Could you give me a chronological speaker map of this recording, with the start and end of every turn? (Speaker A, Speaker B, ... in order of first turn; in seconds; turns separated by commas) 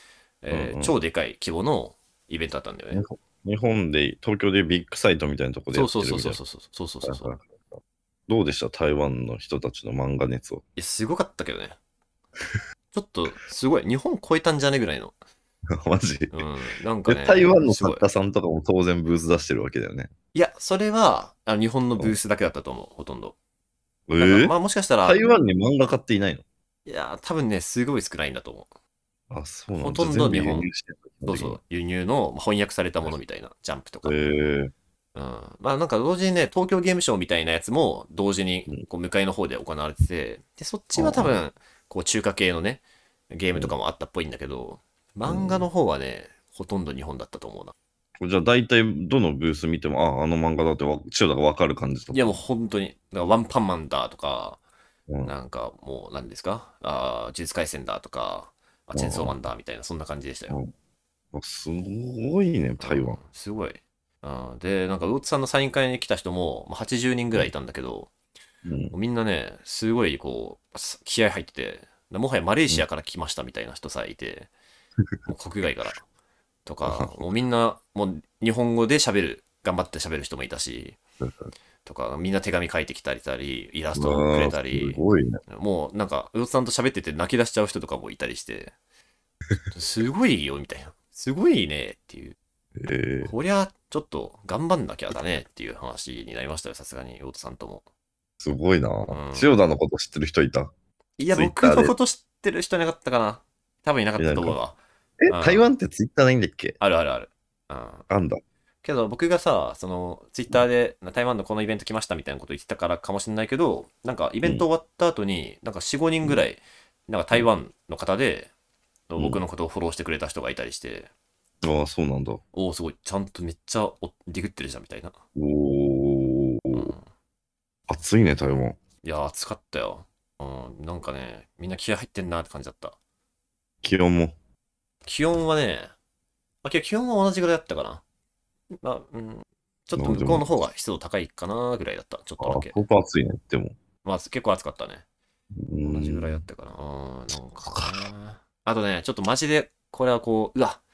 Speaker A: 0.4-3.0, Speaker B: 0.5-0.9, Speaker B: 2.9-6.4, Speaker A: 5.7-7.3, Speaker B: 7.0-10.6, Speaker A: 10.8-11.8, Speaker A: 12.9-15.2, Speaker B: 15.7-16.4, Speaker A: 16.3-18.0, Speaker B: 17.1-20.1, Speaker A: 20.3-23.3, Speaker B: 24.1-26.4, Speaker A: 24.2-25.2, Speaker A: 26.9-28.7, Speaker B: 29.3-31.6, Speaker A: 29.7-30.7, Speaker A: 31.2-34.1, Speaker B: 34.0-34.7, Speaker A: 35.1-47.7, Speaker B: 41.0-41.4, Speaker B: 45.2-45.7, Speaker B: 48.2-52.4, Speaker A: 52.1-54.6, Speaker A: 55.2-60.6, Speaker B: 58.9-59.3, Speaker B: 61.3-63.2, Speaker A: 62.8-68.1, Speaker B: 68.6-68.9, Speaker A: 68.9-74.5, Speaker A: 75.2-76.0, Speaker A: 76.7-81.0, Speaker B: 76.8-77.2, Speaker B: 81.2-81.5, Speaker A: 81.8-88.7, Speaker B: 83.9-85.4, Speaker A: 89.7-92.3, Speaker B: 92.8-93.3, Speaker A: 93.2-97.8, Speaker B: 98.4-100.7, Speaker A: 99.1-99.5, Speaker A: 101.2-105.7, Speaker B: 101.3-101.9, Speaker B: 104.2-104.6, Speaker B: 105.2-106.8, Speaker A: 106.8-108.0, Speaker B: 108.1-108.4, Speaker A: 108.8-118.5, Speaker A: 119.1-121.1, Speaker B: 121.6-122.4, Speaker A: 122.5-125.2, Speaker B: 125.3-126.9, Speaker A: 126.7-127.0, Speaker B: 127.9-128.8, Speaker A: 129.0-132.9, Speaker B: 133.8-134.3, Speaker A: 135.1-135.9, Speaker A: 136.6-138.0, Speaker A: 138.8-142.8, Speaker B: 139.9-140.4, Speaker B: 142.4-143.8, Speaker A: 144.0-145.0, Speaker B: 145.6-146.4, Speaker A: 145.8-150.8, Speaker B: 147.7-148.1